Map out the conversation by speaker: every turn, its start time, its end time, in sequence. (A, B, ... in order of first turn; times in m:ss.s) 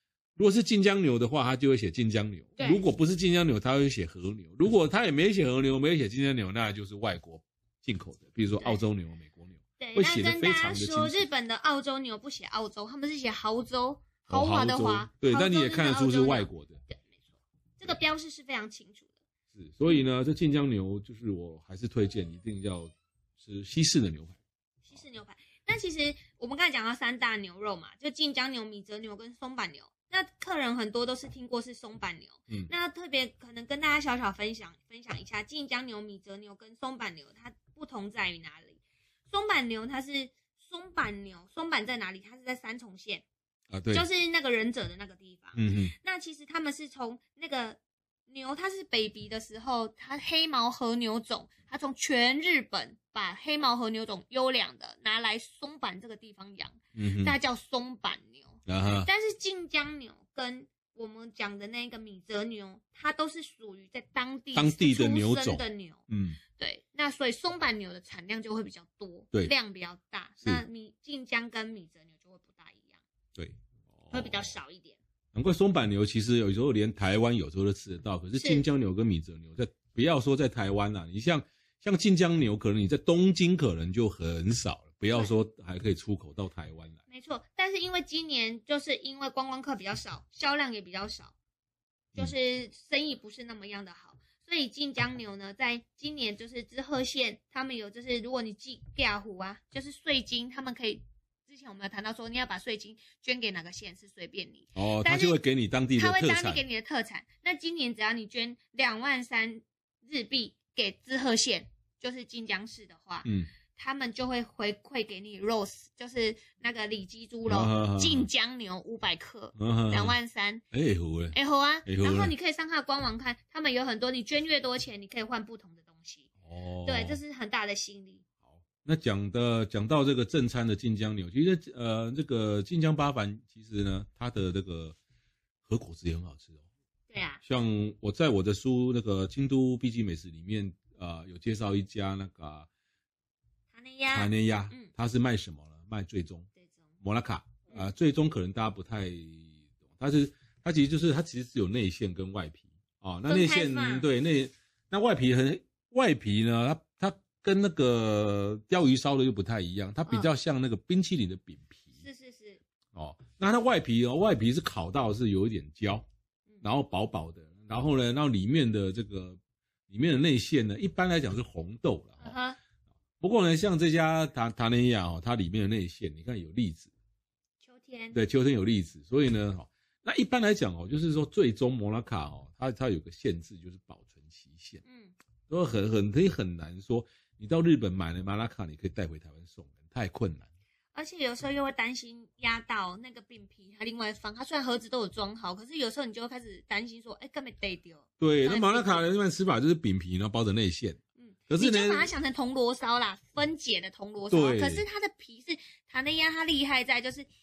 0:00.4-0:11.2 A
0:02.6-0:02.8 B
0:09.8-0:17.1 B
0:14.3-0:16.8 A
0:17.8-0:19.1 B
0:19.5-0:24.4 A
0:24.8-0:43.2 B
0:43.7-0:44.1 A
0:43.9-1:06.0 B
0:45.5-0:45.9 A
0:56.9-0:57.4 A
0:58.6-0:59.1 A
1:04.5-1:06.4 A
1:06.6-1:13.0 B
1:13.4-1:14.5 A
1:14.1-1:15.0 B
1:15.3-1:27.0 A
1:18.4-1:18.6 B
1:27.1-1:31.3 B
1:32.2-1:45.4 B
1:44.8-1:46.6 A
1:46.0-2:00.6 B
1:53.2-1:53.5 A
1:57.4-1:58.3 A
1:59.6-2:00.2 A
2:00.7-2:02.3 A
2:01.3-2:06.3 B
2:06.4-2:07.2 A
2:06.8-2:08.2 B
2:08.5-2:15.0 A
2:15.6-2:16.6 A
2:17.1-2:17.4 B
2:17.4-2:22.7 A
2:23.7-2:24.9 B
2:24.1-2:26.5 A
2:27.0-2:42.0 A
2:33.2-2:34.1 B
2:42.0-2:42.6 B
2:42.9-2:46.0 A
2:46.6-2:52.4 A
2:52.2-2:52.6 B
2:53.2-2:56.9 A
2:57.6-2:58.2 B
2:58.1-3:04.8 A
3:04.8-3:05.1 B
3:05.5-3:10.5 A
3:10.9-3:19.1 B
3:18.2-3:22.1 A
3:21.2-3:27.3 B
3:24.3-3:24.8 A